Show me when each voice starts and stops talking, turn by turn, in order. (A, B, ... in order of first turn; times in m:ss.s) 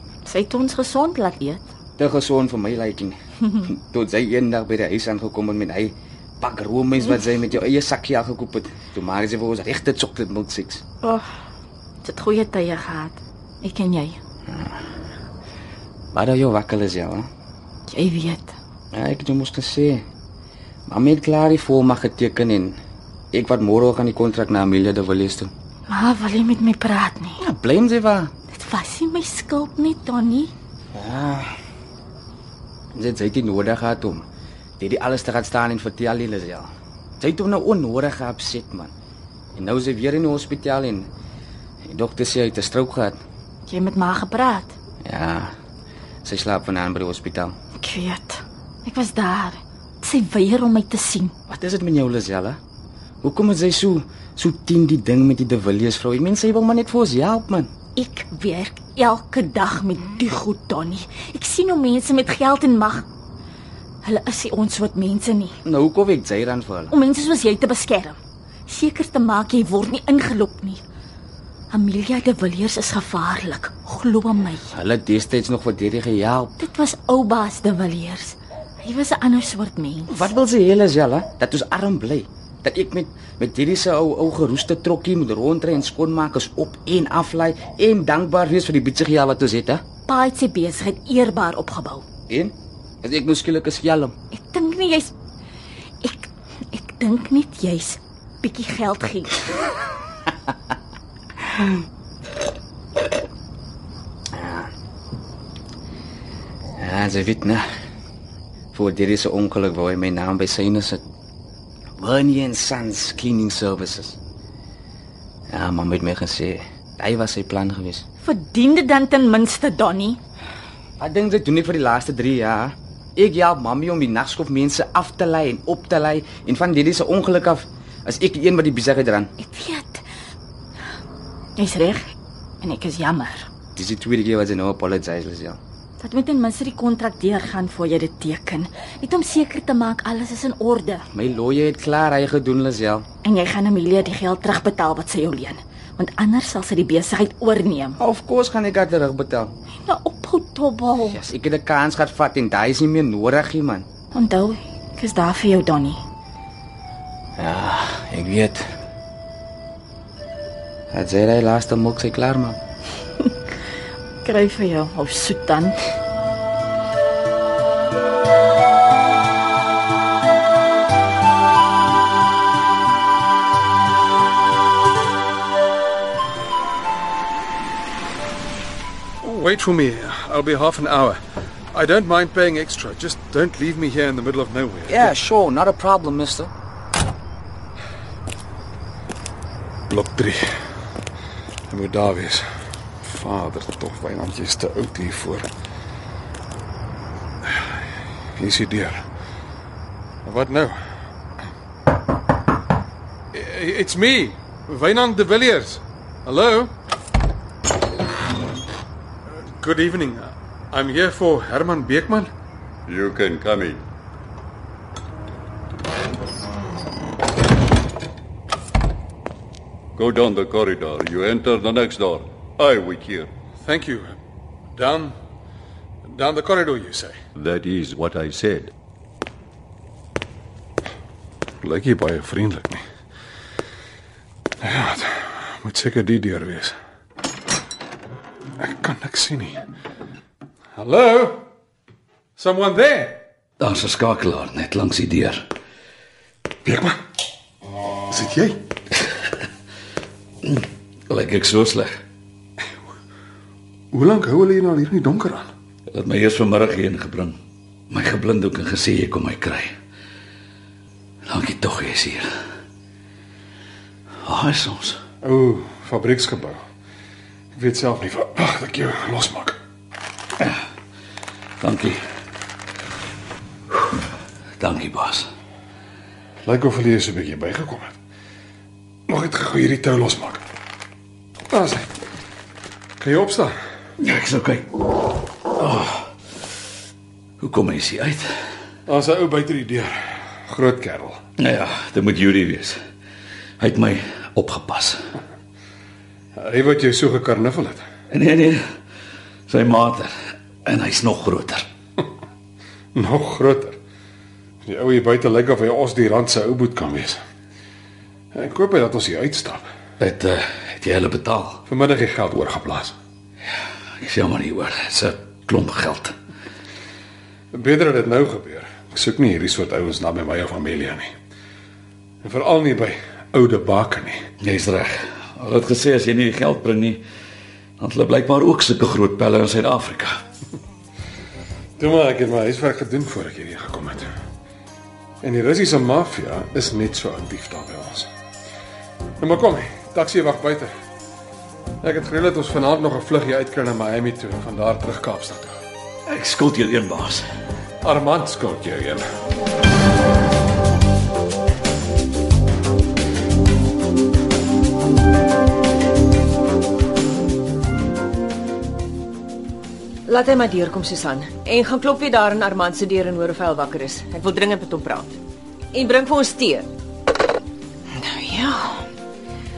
0:00.2-0:01.6 A
0:02.0-0:10.8 B
0:12.0-0:14.2 A
0:14.5-0:14.8 B
0:16.1-0:17.3 B
0:17.9-0:18.5 A
0:18.9-0:20.0 B
0:20.9-0:22.8 B
0:23.3-0:25.5 B
0:25.9-0:27.4 A
0:27.4-0:28.3 B
0:28.5-0:30.5 A
0:30.9-0:31.5 B
0:32.9-0:34.2 B
0:34.8-0:38.9 B
0:39.5-0:41.1 B
0:41.8-0:43.2 B
0:43.7-0:44.7 A
0:45.0-0:45.5 B
0:46.2-0:47.5 B
0:47.8-0:51.3 A
0:51.5-0:52.6 B
0:53.2-0:57.7 B
0:58.0-1:03.0 A
1:04.0-1:05.6 A
1:05.6-1:06.9 B
1:06.9-1:08.2 A
1:08.7-1:10.8 A
1:11.7-1:14.7 A
1:14.7-1:16.5 B
1:16.6-1:20.2 A
1:20.1-1:29.8 B
1:30.0-1:32.0 A
1:32.3-1:34.1 B
1:34.3-1:35.1 A
1:36.0-1:39.4 A
1:44.3-1:44.7 B
1:46.8-1:47.6 B
1:48.7-1:51.0 B
1:52.0-1:54.2 B
1:55.5-1:58.0 B
1:58.2-2:00.2 A
2:01.0-2:09.3 B
2:09.4-2:10.0 A
2:11.6-2:12.0 A
2:12.6-2:13.5 A
2:13.8-2:15.6 B
2:16.0-2:21.0 A
2:21.1-2:23.0 B
2:23.2-2:28.0 A
2:28.0-2:29.5 B
2:29.8-2:31.2 A
2:31.0-2:33.8 B
2:34.1-2:36.0 A
2:37.4-2:38.6 B
2:40.9-2:42.6 B
2:44.2-2:45.8 A
2:59.2-3:01.2 C
3:01.7-3:05.1 C
3:04.9-3:06.5 B
3:09.9-3:10.4 C
3:11.7-3:12.4 C
3:13.0-3:15.4 C
3:18.4-3:19.0 C
3:20.2-3:20.8 C
3:23.3-3:26.7 C
3:29.6-3:32.3 C
3:32.9-3:33.8 D
3:40.0-3:43.3 D
3:43.6-3:44.1 C
3:44.8-3:45.1 C
3:46.1-3:47.1 C
3:47.4-3:48.7 D
3:51.6-3:52.8 C
3:54.6-3:56.7 C
3:58.6-3:59.6 C
4:00.8-4:01.4 C
4:02.4-4:03.2 C
4:03.6-4:05.5 E
4:06.6-4:07.0 C
4:08.1-4:08.6 C
4:10.4-4:11.9 E
4:13.9-4:15.5 C
4:15.9-4:17.4 E
4:17.9-4:19.7 E
4:21.2-4:22.3 E
4:24.2-4:25.0 E
4:25.2-4:26.6 C
4:27.6-4:29.6 C
4:31.6-4:32.0 E
4:34.6-4:35.2 E
4:36.4-4:37.9 C
4:39.1-4:40.4 C
4:41.5-4:41.8 C
4:43.0-4:43.5 C
4:44.0-4:44.7 E
4:45.6-4:46.0 E
4:47.4-4:48.3 E
4:48.9-4:49.9 C
4:50.5-4:51.2 C
4:51.4-4:52.8 E
4:53.6-4:55.0 E
4:56.4-4:57.8 C
4:58.1-4:58.6 E
4:59.5-5:00.1 E
5:00.6-5:01.6 E
5:02.9-5:03.8 C
5:04.6-5:07.2 C
5:08.3-5:09.6 C
5:10.0-5:11.6 E
5:11.7-5:12.9 C
5:14.0-5:16.1 E
5:17.5-5:21.1 C
5:22.2-5:24.2 C
5:24.4-5:27.0 E
5:27.8-5:30.1 E
5:31.8-5:34.1 C
5:35.2-5:38.1 C
5:39.2-5:40.7 C
5:41.8-5:45.6 C
5:46.1-5:47.2 E
5:47.8-5:49.0 C
6:00.0-6:05.2 F
6:05.7-6:06.7 F
6:07.9-6:08.9 F